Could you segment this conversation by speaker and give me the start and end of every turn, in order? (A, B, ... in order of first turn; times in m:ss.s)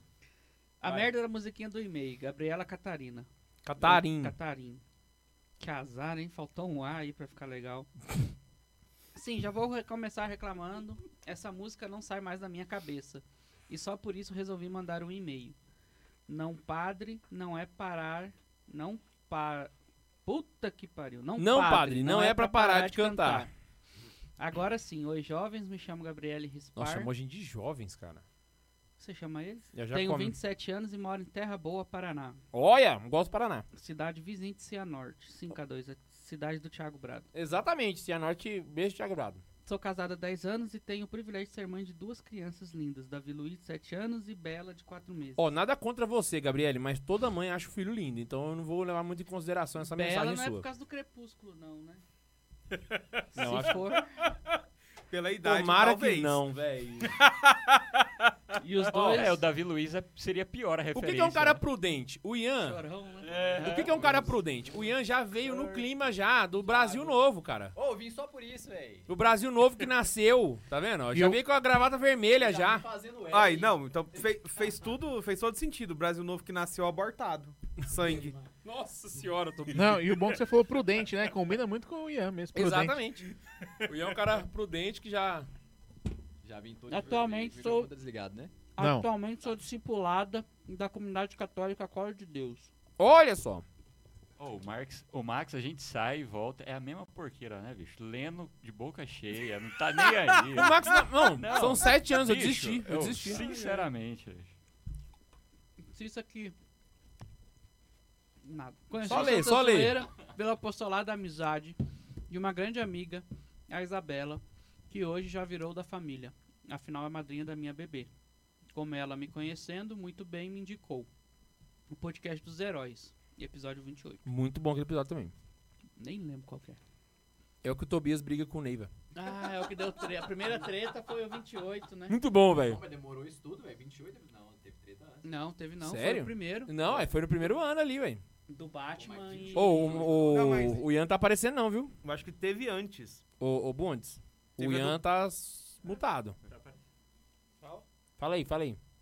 0:00.8-0:03.3 A
0:03.6-0:04.4 B
0:03.8-0:04.8 A
0:05.6-0:07.9 A
0:09.2-0:15.6 A
0:16.3-0:19.7 A
0:20.3-0:23.5 A
0:21.4-0:23.5 B
0:24.4-0:27.1 A
0:26.8-0:28.2 B
0:29.0-0:32.4 A
0:29.7-0:30.4 B
0:32.5-0:33.6 B
0:33.7-0:37.3 A
0:37.3-0:39.4 B
0:39.7-0:45.5 A
0:45.4-0:50.7 B
0:49.8-0:52.0 A
0:53.4-0:54.1 A
0:53.4-0:53.8 B
0:55.1-0:56.4 C
0:55.4-0:57.1 B
0:57.0-0:58.3 C
0:58.6-0:59.4 A
0:58.9-0:59.3 B
0:58.9-1:01.6 D
1:00.9-1:02.8 B
1:02.6-1:03.4 A
1:03.2-1:04.0 D
1:03.6-1:07.7 B
1:04.0-1:04.3 E
1:05.4-1:05.9 E
1:06.6-1:07.2 E
1:07.8-1:09.1 E
1:09.1-1:12.9 B
1:11.1-1:11.4 F
1:12.3-1:14.9 E
1:13.3-1:18.4 C
1:18.6-1:20.3 B
1:19.7-1:23.0 F
1:22.5-1:23.3 B
1:23.9-1:25.5 B
1:26.4-1:28.5 E
1:26.9-1:27.9 A
1:28.7-1:32.7 A
1:28.8-1:29.1 F
1:33.0-1:33.6 B
1:34.4-1:44.5 D
1:40.5-1:43.5 B
1:43.5-1:43.8 C
1:45.9-1:46.6 A
1:48.4-1:51.8 A
1:49.0-1:50.0 B
1:52.3-1:58.1 A
1:58.7-2:01.1 A
2:01.9-2:04.2 A
2:04.3-2:05.3 B
2:06.0-2:06.8 A
2:07.6-2:08.9 B
2:09.2-2:12.2 A
2:12.1-2:12.8 B
2:12.6-2:15.2 E
2:15.2-2:16.7 A
2:15.8-2:18.2 B
2:16.8-2:17.1 E
2:18.5-2:20.0 A
2:19.0-2:20.4 E
2:19.5-2:21.9 B
2:20.0-2:20.9 C
2:22.0-2:23.2 C
2:23.4-2:26.4 B
2:24.6-2:25.0 C
2:26.4-2:26.8 D
2:27.6-2:27.9 C
2:28.2-2:28.8 B